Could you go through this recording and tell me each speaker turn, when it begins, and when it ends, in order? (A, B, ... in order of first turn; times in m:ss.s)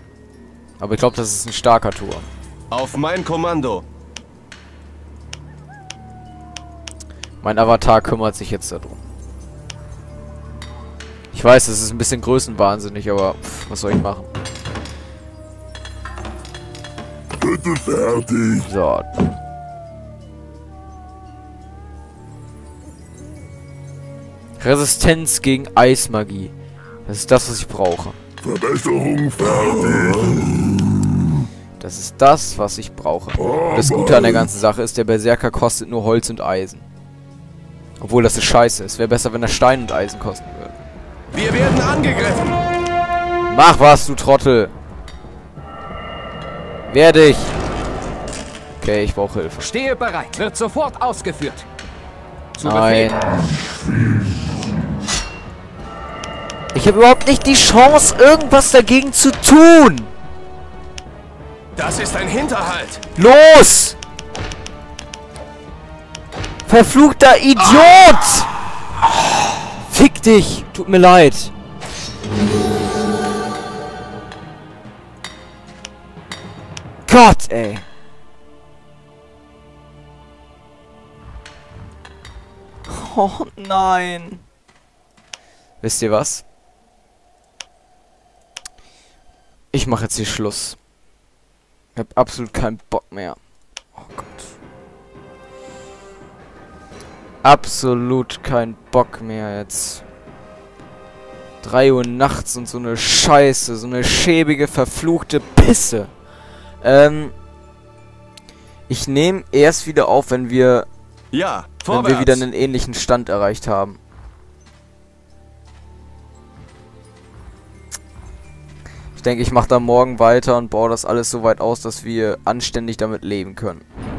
0:00.8-0:02.3 A
0:02.7-0:03.8 B
0:07.4-0:09.0 A
0:11.3-0:14.3 A
0:17.5-0:18.6 C
0:18.6-0:19.1 A
0:24.6-0:26.5 A
0:27.1-0:28.2 A
0:28.4-0:30.4 C
0:31.8-0:36.9 A
0:38.0-0:40.8 A
0:41.3-0:42.6 B
0:43.5-0:44.7 A
0:46.9-0:47.6 A
0:48.8-0:49.7 A
0:49.6-0:51.7 D
0:52.6-0:53.1 D
0:52.6-0:53.2 A
0:56.7-1:00.1 A
1:01.8-1:03.0 B
1:03.2-1:04.0 A
1:06.7-1:08.5 A
1:09.6-1:11.5 A
1:17.1-1:17.8 A
1:22.9-1:24.4 A
1:25.8-1:26.4 A
1:29.7-1:30.8 A
1:32.0-1:33.4 A
1:34.0-1:34.4 A
1:37.4-1:40.0 A
1:41.6-1:46.1 A
1:46.8-1:47.3 A
1:48.9-1:50.9 A
1:51.3-1:52.4 B
1:51.9-1:54.0 A
1:59.2-2:03.8 A